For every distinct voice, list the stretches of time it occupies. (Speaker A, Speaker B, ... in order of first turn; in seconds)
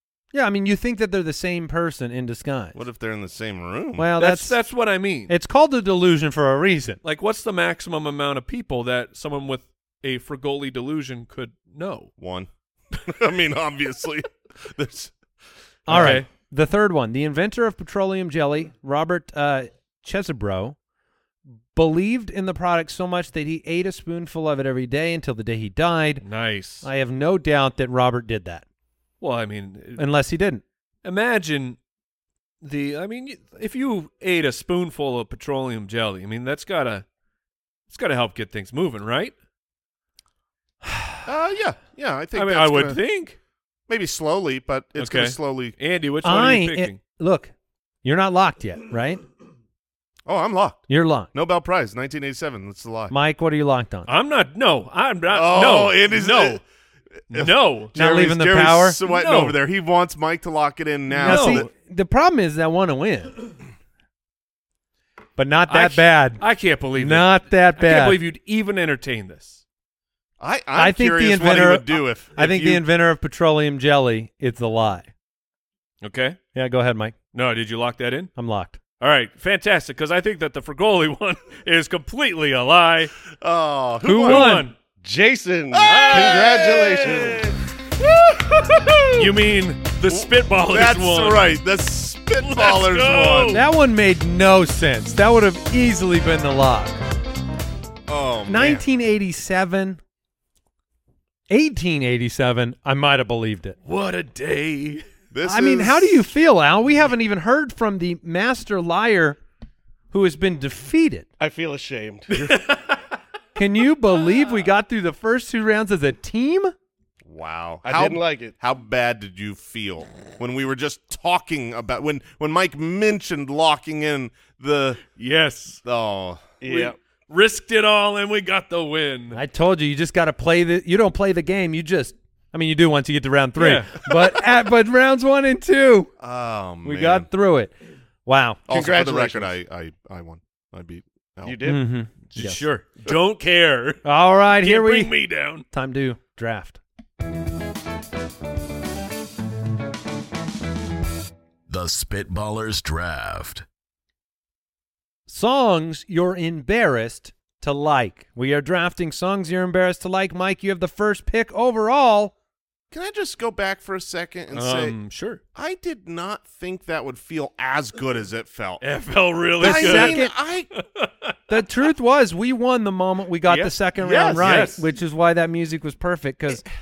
Speaker A: 0.3-2.8, 4.0-4.6, 5.3-7.0, 15.9-20.8, 21.7-26.2, 26.8-28.6, 30.0-30.6, 40.9-41.1, 46.2-47.5, 48.0-49.2, 50.9-51.3, 53.1-54.1, 57.9-59.0, 61.1-63.3, 65.4-66.4, 67.0-68.2, 70.8-75.1, 76.5-77.1, 78.4-78.8, 84.0-84.7, 93.5-97.0, 98.5-100.0, 101.5-103.8, 105.4-109.4, 110.1-111.3, 113.5-116.7, 129.3-136.1, 136.8-137.7, 138.2-138.7, 141.6-142.7, 144.0-146.8, 155.3-162.3, 169.6-170.3, 171.5-176.6
Speaker B: 2.7-4.1, 12.2-15.1, 41.2-43.0, 43.9-45.8, 50.2-53.1, 55.3-56.6, 57.3-61.7, 70.4-72.8, 83.4-84.5, 85.7-89.3, 90.1-93.6, 98.1-98.8, 105.3-106.3, 117.2-125.0, 125.8-126.5, 136.2-137.3, 138.7-141.6, 162.9-164.9, 165.5-168.8, 169.6-170.7, 174.0-174.8
Speaker C: 4.2-5.3, 7.0-12.1, 15.9-16.2, 26.2-26.9, 29.2-30.0, 31.0-31.8, 32.6-37.0, 37.9-39.3, 42.3-43.4, 45.0-47.0, 54.1-56.6, 57.3-57.9, 59.0-59.6, 61.2-61.6, 65.7-69.6, 76.0-76.4, 77.3-78.3, 79.0-83.1, 84.2-84.7, 85.9-86.7, 89.1-91.5, 92.4-93.6, 103.9-105.0, 112.4-113.0, 125.2-125.8, 126.7-129.4, 133.6-134.2, 142.3-144.0, 144.6-145.6, 164.5-165.4, 168.8-170.2, 170.7-171.3, 173.4-173.8, 174.3-174.8
Speaker D: 85.0-87.5, 111.4-112.6, 117.8-118.5, 126.6-127.0, 138.7-139.5, 141.4-141.8
Speaker E: 151.7-153.6